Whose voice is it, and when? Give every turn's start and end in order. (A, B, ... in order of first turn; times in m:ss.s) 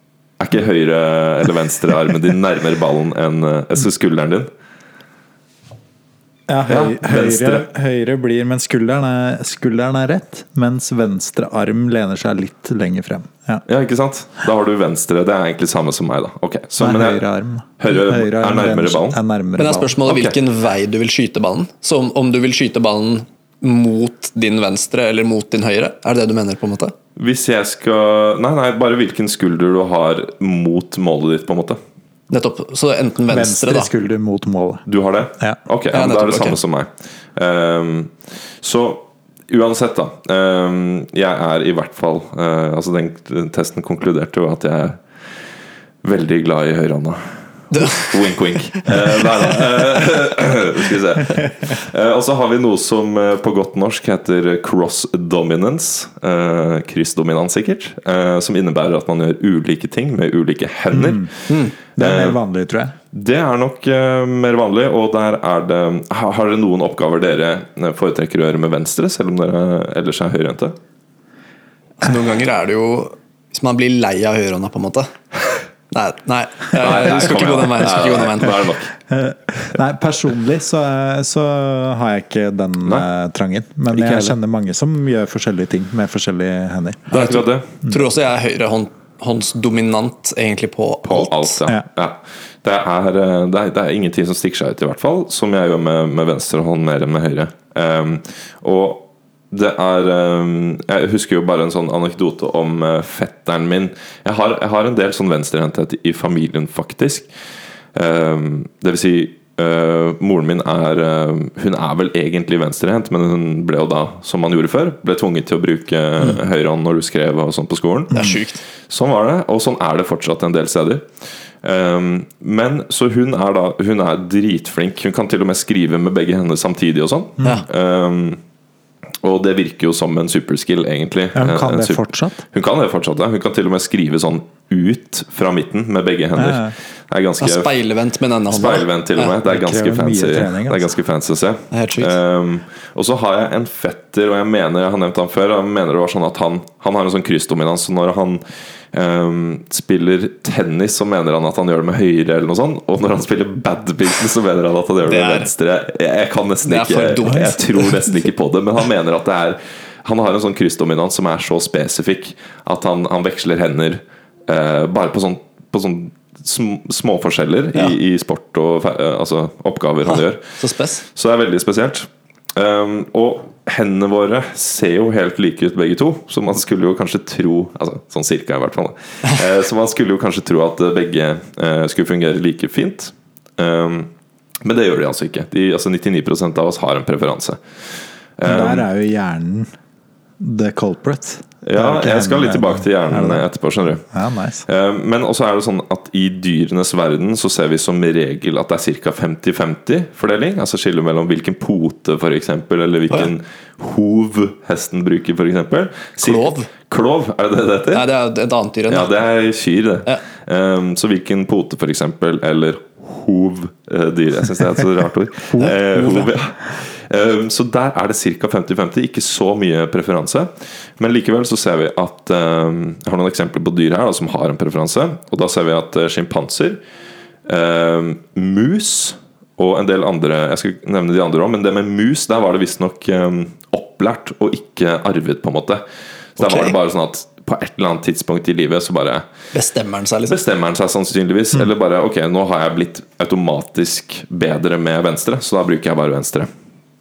0:00.4-0:04.5 A
0:06.5-0:13.6 B
0:06.7-0:07.6 A
0:13.6-0:17.2 A
0:16.8-0:20.0 B
0:17.8-0:19.2 A
0:19.6-0:26.9 C
0:20.0-0:20.3 A
0:27.2-0:31.8 A
0:32.3-0:33.9 C
0:33.3-0:34.8 B
0:34.9-0:45.0 A
0:35.9-0:36.6 C
0:46.0-1:02.4 A
0:47.7-0:48.2 C
1:00.9-1:01.3 B
1:01.5-1:01.7 C
1:01.9-1:03.0 B
1:03.1-1:10.8 A
1:12.0-1:15.1 C
1:15.9-1:18.7 C
1:16.8-1:18.9 A
1:19.1-1:27.0 B
1:23.9-1:24.3 A
1:27.1-1:31.6 C
1:27.1-1:27.7 A
1:31.0-1:47.3 A
1:47.9-1:58.3 A
1:58.1-1:58.6 C
1:58.9-2:01.1 A
2:01.6-2:08.4 A
2:09.2-2:17.7 A
2:11.3-2:12.4 B
2:16.3-2:16.7 B
2:17.4-2:19.4 C
2:18.5-2:50.4 A
2:19.4-2:20.9 B
2:21.7-2:22.2 C
2:35.0-2:35.5 C
2:36.6-2:38.1 C
2:50.0-2:51.0 C
2:51.1-3:04.1 A
3:04.6-3:08.9 A
3:08.4-3:09.7 B
3:10.4-3:13.5 B
3:11.6-3:14.0 A
3:14.1-3:14.6 B
3:14.6-3:28.0 A
3:26.2-3:26.7 C
3:27.9-3:29.1 C
3:28.9-3:46.8 A
3:35.6-3:36.3 C
3:47.5-3:55.8 A
3:56.4-3:59.2 A
3:56.4-3:56.8 C
3:59.5-4:00.4 C
4:00.3-4:06.5 A